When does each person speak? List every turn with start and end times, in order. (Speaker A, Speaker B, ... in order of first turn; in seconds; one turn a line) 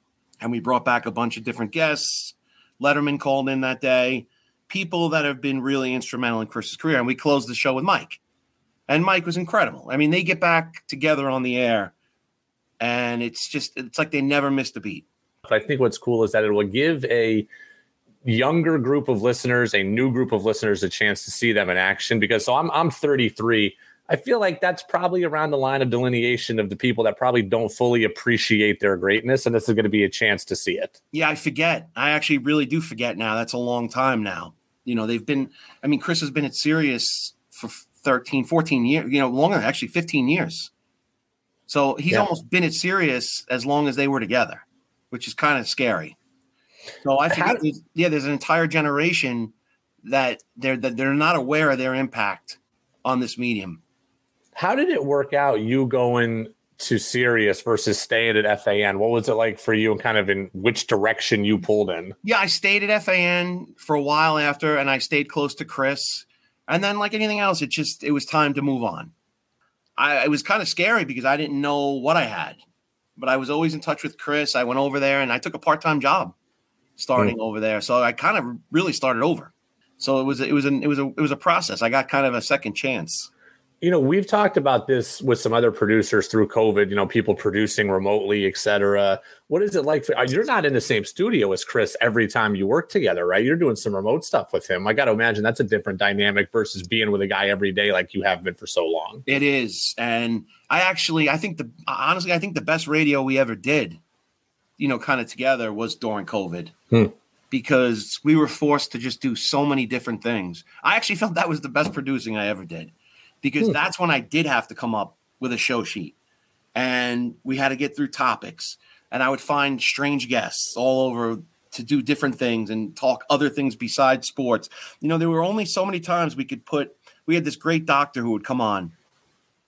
Speaker A: 0.4-8.2
Speaker A: 8.9-11.9
Speaker A: 12.8-15.1
Speaker B: 15.4-17.5
Speaker B: 18.2-31.0
Speaker A: 31.1-40.7
Speaker A: 41.7-46.1
Speaker A: 47.0-53.8
Speaker B: 47.3-47.6
Speaker B: 54.5-62.1
Speaker A: 62.2-69.1
Speaker A: 70.0-72.6
Speaker A: 73.2-76.3
Speaker A: 77.0-83.3
Speaker B: 83.8-99.2
Speaker A: 99.2-104.0
Speaker A: 104.8-106.7
Speaker A: 107.5-116.1
Speaker A: 116.8-128.9